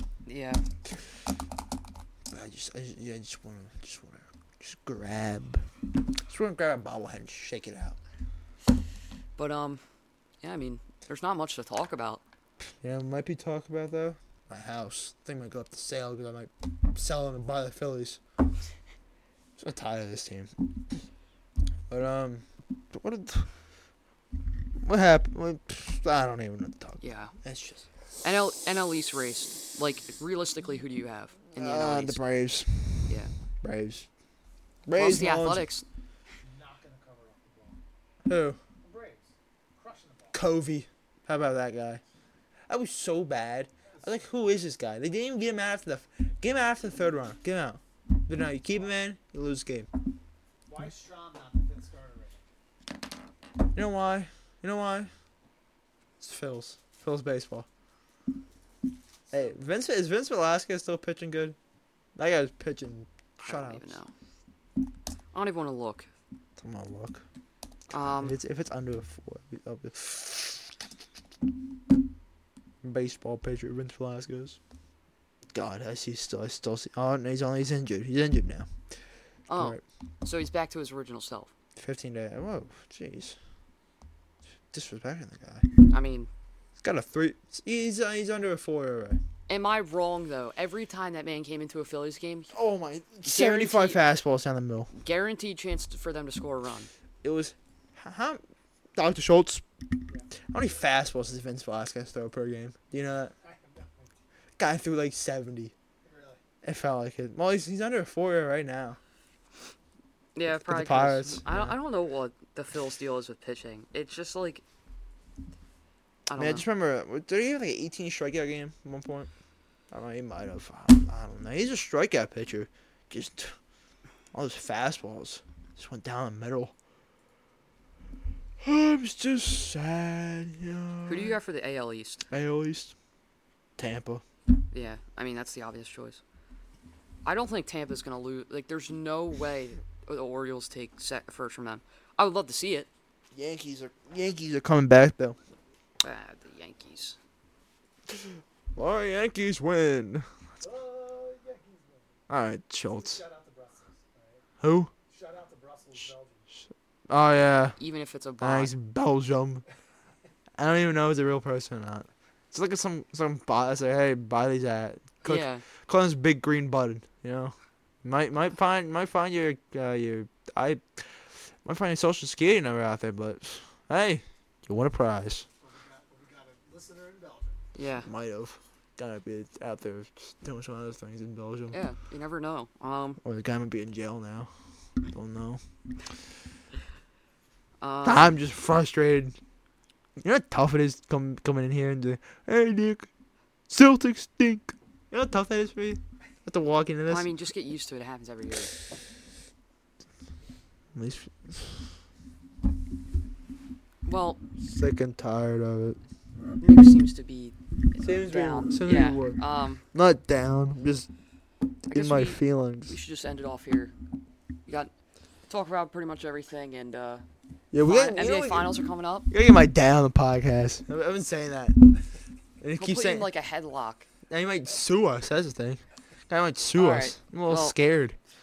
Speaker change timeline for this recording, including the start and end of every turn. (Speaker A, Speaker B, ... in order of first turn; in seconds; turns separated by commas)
Speaker A: 0.3-0.6, Speaker B: 2.3-5.7, Speaker B: 6.3-8.0, Speaker A: 9.4-9.8, Speaker A: 10.4-12.2, Speaker B: 12.8-18.2, Speaker B: 19.6-21.0, Speaker B: 21.9-23.5, Speaker B: 24.8-27.9, Speaker A: 27.0-27.3, Speaker A: 28.2-32.2, Speaker B: 31.6-34.1, Speaker B: 34.9-35.7, Speaker A: 35.0-35.9, Speaker C: 36.4-37.8, Speaker B: 38.3-38.6, Speaker C: 38.8-40.4, Speaker B: 40.3-42.0, Speaker B: 42.7-49.9, Speaker C: 43.9-44.4, Speaker C: 50.7-52.5, Speaker B: 53.7-55.1, Speaker B: 56.2-57.7, Speaker C: 59.3-59.7, Speaker B: 59.3-61.6, Speaker B: 62.2-64.0, Speaker A: 63.4-64.1, Speaker A: 65.3-66.1, Speaker B: 66.6-67.2, Speaker A: 67.9-68.4, Speaker B: 68.1-70.7, Speaker B: 72.8-74.6, Speaker B: 75.5-78.7, Speaker A: 79.5-81.5, Speaker B: 79.6-79.8, Speaker B: 81.8-83.4, Speaker B: 84.7-85.7, Speaker A: 85.9-86.3, Speaker B: 86.8-89.2, Speaker A: 89.5-92.5, Speaker B: 92.5-94.9, Speaker A: 93.2-94.0, Speaker A: 94.9-96.9, Speaker B: 97.2-98.4, Speaker B: 99.0-99.7, Speaker B: 100.5-103.3, Speaker C: 103.3-104.2, Speaker B: 104.6-105.7, Speaker C: 106.0-106.4, Speaker B: 106.6-109.0, Speaker A: 110.4-114.6, Speaker B: 110.5-111.8, Speaker A: 116.3-116.7, Speaker B: 116.4-119.3, Speaker B: 119.9-123.6, Speaker B: 124.3-126.7, Speaker B: 128.6-131.4, Speaker A: 131.1-132.3, Speaker B: 132.3-132.9, Speaker B: 133.8-134.2, Speaker A: 134.7-136.2, Speaker A: 137.2-142.9, Speaker B: 143.3-145.4, Speaker A: 146.0-147.2, Speaker B: 148.1-150.3, Speaker C: 150.6-152.2, Speaker B: 152.3-153.2, Speaker C: 152.9-154.4, Speaker B: 154.6-154.9, Speaker C: 155.1-156.5, Speaker B: 157.1-157.8, Speaker A: 157.8-158.7, Speaker B: 158.4-159.6, Speaker B: 160.6-175.5, Speaker A: 165.2-165.7, Speaker C: 175.6-177.7, Speaker A: 177.8-178.1, Speaker B: 178.1-181.8, Speaker A: 181.7-183.2, Speaker B: 183.2-184.5, Speaker B: 185.1-185.6, Speaker A: 187.8-188.4, Speaker B: 188.0-189.4, Speaker B: 190.2-193.1, Speaker B: 193.7-197.3, Speaker A: 197.1-198.7, Speaker B: 200.9-201.9, Speaker A: 204.1-204.4, Speaker B: 204.6-206.0, Speaker A: 206.6-209.9, Speaker B: 208.0-209.4, Speaker B: 209.9-211.1, Speaker B: 211.9-213.0, Speaker A: 211.9-213.9, Speaker A: 214.7-214.9, Speaker A: 215.5-217.2, Speaker B: 217.7-218.8, Speaker A: 217.8-219.3, Speaker B: 219.3-222.0, Speaker B: 222.6-223.3, Speaker A: 222.8-224.1, Speaker B: 224.3-228.2, Speaker A: 226.8-227.8